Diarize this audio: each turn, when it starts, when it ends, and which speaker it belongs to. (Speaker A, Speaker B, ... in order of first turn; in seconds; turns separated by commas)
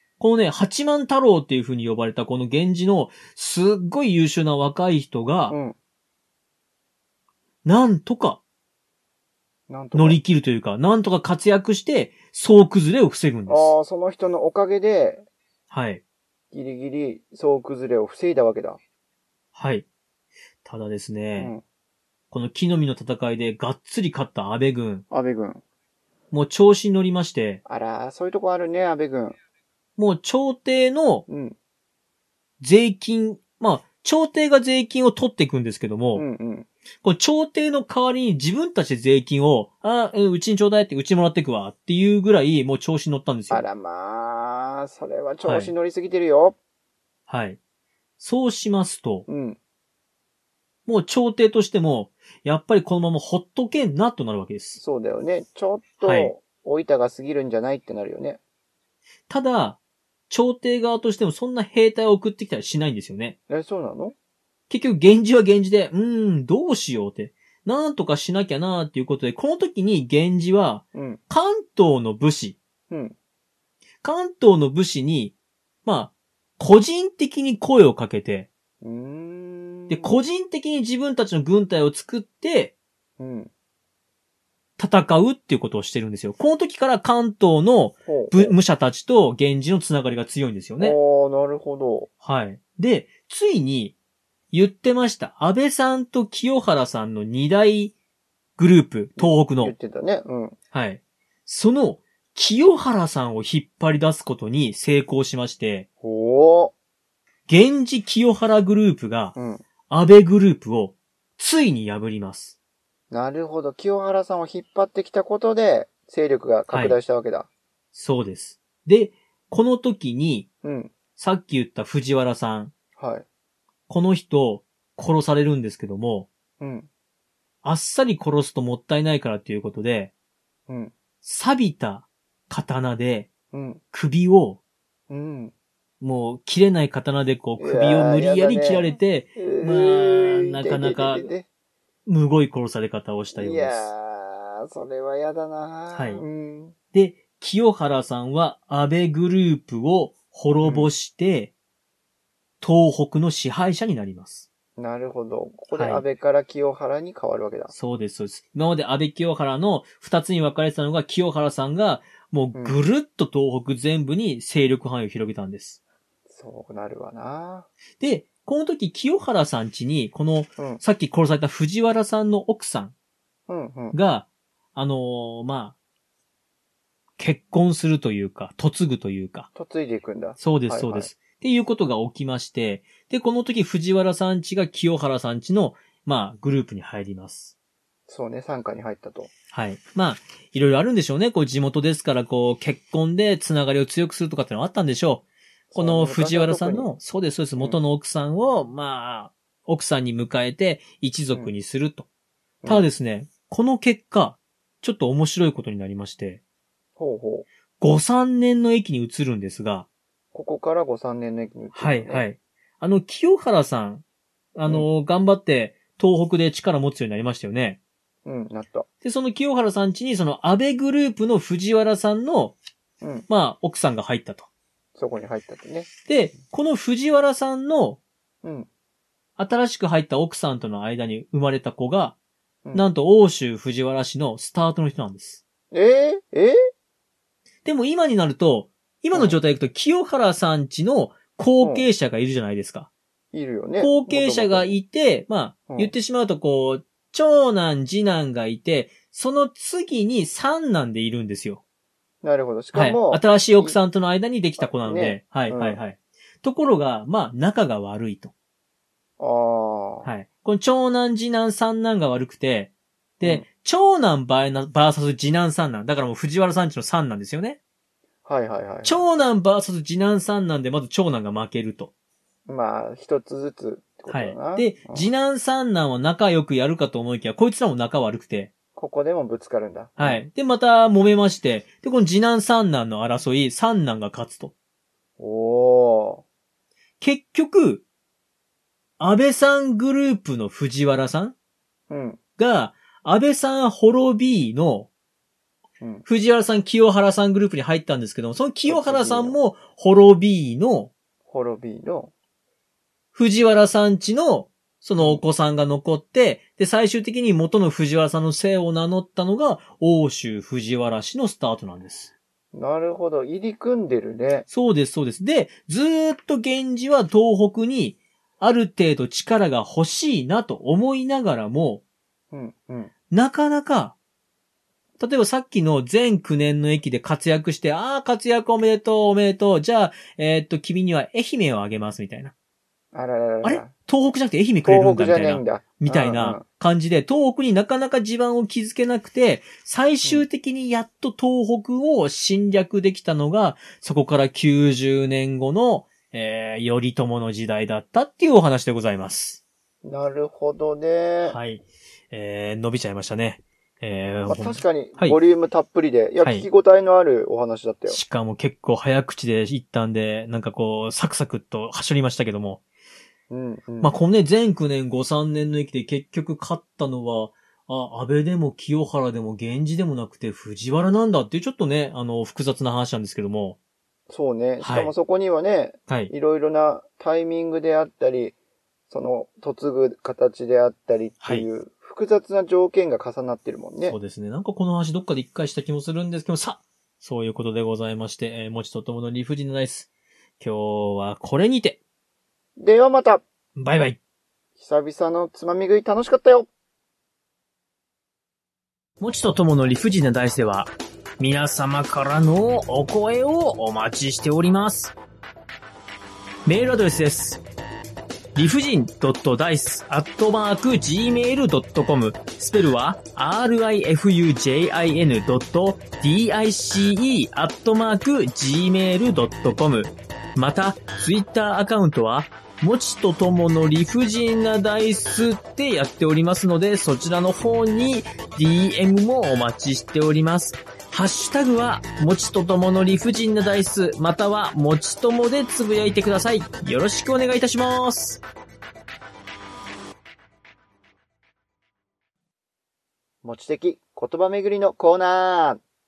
Speaker A: 0.2-5.6, Speaker B: 5.5-5.8, Speaker A: 7.6-8.4, Speaker B: 9.7-10.2, Speaker A: 9.9-13.7, Speaker B: 13.5-15.2, Speaker A: 15.7-16.0, Speaker B: 16.5-18.8, Speaker A: 19.5-19.9, Speaker A: 20.6-21.5, Speaker B: 21.4-21.6, Speaker A: 22.3-25.0, Speaker B: 25.1-25.6, Speaker A: 26.3-27.6, Speaker B: 27.6-29.4, Speaker A: 30.0-31.3, Speaker B: 31.3-31.6, Speaker A: 32.6-36.2, Speaker B: 36.1-36.7, Speaker A: 37.0-43.6, Speaker B: 43.5-46.6, Speaker A: 45.4-45.7, Speaker A: 47.3-47.6, Speaker A: 48.2-49.3, Speaker B: 49.3-49.6, Speaker A: 50.9-54.8, Speaker B: 54.8-58.4, Speaker A: 56.0-56.3, Speaker A: 59.3-63.4, Speaker B: 63.5-64.1, Speaker A: 64.7-72.6, Speaker B: 70.9-71.2, Speaker B: 72.9-73.1, Speaker A: 74.0-78.5, Speaker B: 78.8-80.2, Speaker A: 79.9-82.7, Speaker B: 83.2-83.5, Speaker A: 84.8-91.0, Speaker B: 88.0-88.5, Speaker B: 90.8-92.1, Speaker A: 92.2-93.9, Speaker A: 94.5-97.9, Speaker A: 98.6-99.7, Speaker B: 99.2-100.5, Speaker A: 100.7-105.8, Speaker B: 106.0-106.7, Speaker A: 107.5-109.3, Speaker B: 109.3-109.6, Speaker A: 109.9-112.5, Speaker B: 113.1-117.5, Speaker A: 116.7-117.0, Speaker A: 117.9-120.5, Speaker B: 120.6-120.9, Speaker A: 121.2-122.7, Speaker B: 123.0-123.2, Speaker A: 123.9-126.3, Speaker B: 126.6-126.9, Speaker A: 127.6-130.1, Speaker B: 130.7-130.9, Speaker A: 131.2-133.3, Speaker B: 133.5-133.8, Speaker A: 133.9-134.6, Speaker B: 135.1-135.5, Speaker A: 136.0-141.3, Speaker B: 137.6-141.4, Speaker A: 142.1-143.9, Speaker B: 143.3-146.7, Speaker A: 145.9-146.2, Speaker A: 146.9-151.5, Speaker B: 150.6-150.9, Speaker A: 152.6-154.5, Speaker B: 154.8-157.7, Speaker A: 155.7-156.0, Speaker A: 157.7-165.8, Speaker B: 166.3-167.7, Speaker A: 168.0-172.9, Speaker B: 173.5-173.9, Speaker A: 173.9-175.7, Speaker A: 177.2-179.5, Speaker B: 179.5-181.1, Speaker A: 180.4-187.5, Speaker B: 188.1-189.3, Speaker A: 189.5-202.1, Speaker B: 195.7-196.9, Speaker B: 202.6-202.9, Speaker A: 202.7-206.4, Speaker B: 207.0-207.5, Speaker A: 207.8-209.9, Speaker B: 210.3-212.2, Speaker A: 211.7-214.0, Speaker A: 214.5-217.8, Speaker B: 218.2-218.9, Speaker A: 219.0-222.6, Speaker B: 223.0-223.3, Speaker A: 223.3-224.5, Speaker B: 224.9-225.9, Speaker A: 226.1-228.0, Speaker B: 228.4-228.7, Speaker A: 229.4-232.2, Speaker A: 232.7-235.4, Speaker B: 235.7-236.6, Speaker A: 237.6-242.9, Speaker B: 241.6-241.9, Speaker B: 243.3-244.8, Speaker A: 243.8-251.6, Speaker B: 245.7-245.9, Speaker B: 252.2-253.8, Speaker A: 252.7-258.3, Speaker B: 254.6-255.8, Speaker B: 259.2-260.1, Speaker A: 260.0-267.6, Speaker B: 268.2-269.0, Speaker A: 268.8-271.9, Speaker B: 272.5-275.1, Speaker A: 274.1-278.5, Speaker B: 278.8-280.2, Speaker A: 280.0-284.5, Speaker B: 285.2-286.2, Speaker A: 287.0-287.8, Speaker A: 289.0-291.3, Speaker B: 291.9-292.2, Speaker A: 292.4-294.9, Speaker B: 295.8-296.1, Speaker A: 296.1-300.9, Speaker B: 298.6-299.4, Speaker B: 301.3-302.1, Speaker A: 303.1-312.1, Speaker B: 312.5-314.4, Speaker A: 314.5-321.8, Speaker B: 322.3-322.9, Speaker A: 323.1-323.9, Speaker A: 325.0-332.3, Speaker B: 332.9-333.7, Speaker A: 333.4-349.4, Speaker B: 334.6-336.4, Speaker B: 349.8-351.4, Speaker A: 351.2-355.2, Speaker B: 354.3-358.0, Speaker A: 356.2-356.5, Speaker A: 357.9-362.6, Speaker B: 363.3-363.9, Speaker A: 363.8-373.6, Speaker B: 374.1-378.3, Speaker A: 374.6-374.9, Speaker A: 375.9-376.1, Speaker B: 378.9-384.0, Speaker A: 381.2-381.5, Speaker A: 383.8-389.9, Speaker A: 390.4-391.8, Speaker B: 392.6-393.2, Speaker A: 393.6-394.0, Speaker B: 394.6-396.5, Speaker A: 399.0-404.9, Speaker A: 406.4-407.4, Speaker A: 408.3-438.2, Speaker B: 443.2-445.6